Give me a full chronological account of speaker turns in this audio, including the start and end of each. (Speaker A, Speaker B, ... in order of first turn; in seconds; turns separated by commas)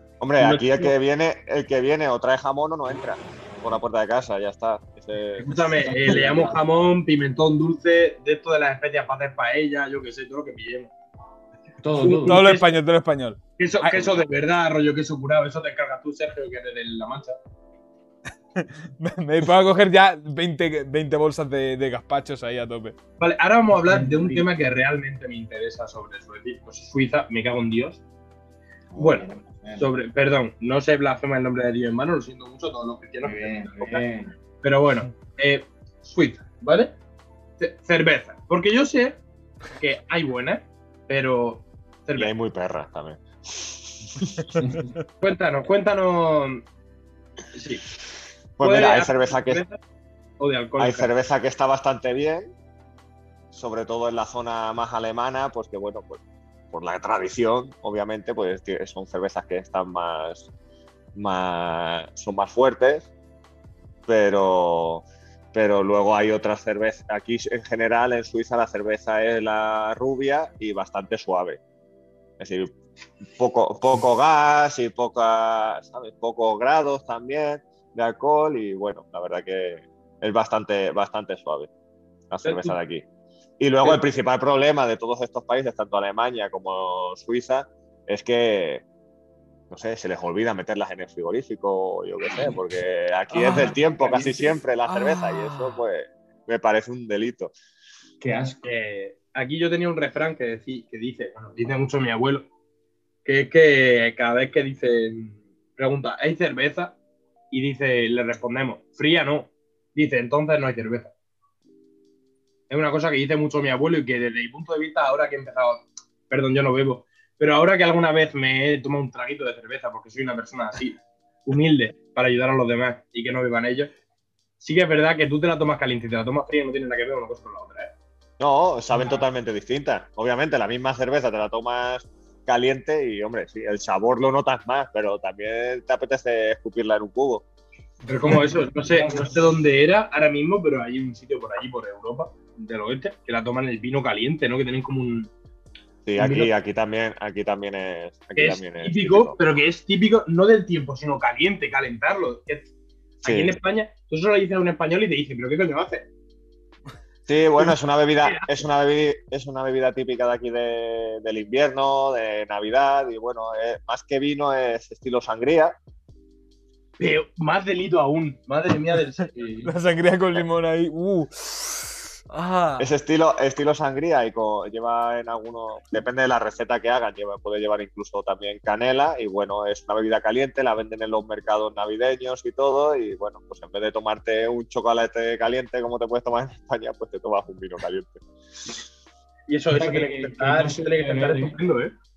Speaker A: 0.2-6.2, Speaker B: 0.4-0.9, Speaker B: 5.4-10.9, Speaker C: 5.8-6.6, Speaker C: 11.8-12.5, Speaker B: 12.0-12.7, Speaker D: 12.2-14.1, Speaker B: 13.6-17.4, Speaker D: 18.6-23.0, Speaker B: 23.2-28.0, Speaker C: 23.7-24.5, Speaker C: 28.9-29.9, Speaker B: 29.0-34.0, Speaker C: 33.2-34.3, Speaker B: 34.6-37.0, Speaker B: 37.6-39.2, Speaker B: 39.8-42.3, Speaker A: 42.2-44.6, Speaker D: 44.6-45.0, Speaker C: 44.6-44.9, Speaker B: 45.2-46.6, Speaker B: 47.5-47.9, Speaker A: 48.6-49.6, Speaker B: 48.6-49.8, Speaker B: 50.4-51.1, Speaker A: 50.8-52.5, Speaker A: 53.5-60.5, Speaker A: 61.1-63.1, Speaker A: 64.1-71.6, Speaker A: 72.4-72.8, Speaker A: 73.3-81.7, Speaker A: 82.3-83.1, Speaker B: 82.5-82.8, Speaker A: 83.6-88.8, Speaker A: 89.7-97.5, Speaker C: 93.4-94.5, Speaker D: 95.0-95.8, Speaker C: 98.2-98.7, Speaker B: 98.6-102.5, Speaker B: 103.2-107.0, Speaker B: 107.5-111.1, Speaker B: 112.7-123.9, Speaker B: 124.6-127.9, Speaker A: 128.4-137.4, Speaker C: 138.1-139.5, Speaker B: 138.1-145.3, Speaker A: 146.1-149.4, Speaker C: 146.2-146.5, Speaker B: 148.4-152.7, Speaker B: 153.2-156.1, Speaker A: 153.2-153.5, Speaker A: 157.3-165.8, Speaker B: 157.6-158.5, Speaker B: 167.0-169.3, Speaker C: 169.3-169.8, Speaker D: 169.6-172.9, Speaker A: 172.8-188.2, Speaker B: 189.5-191.9, Speaker C: 189.7-191.6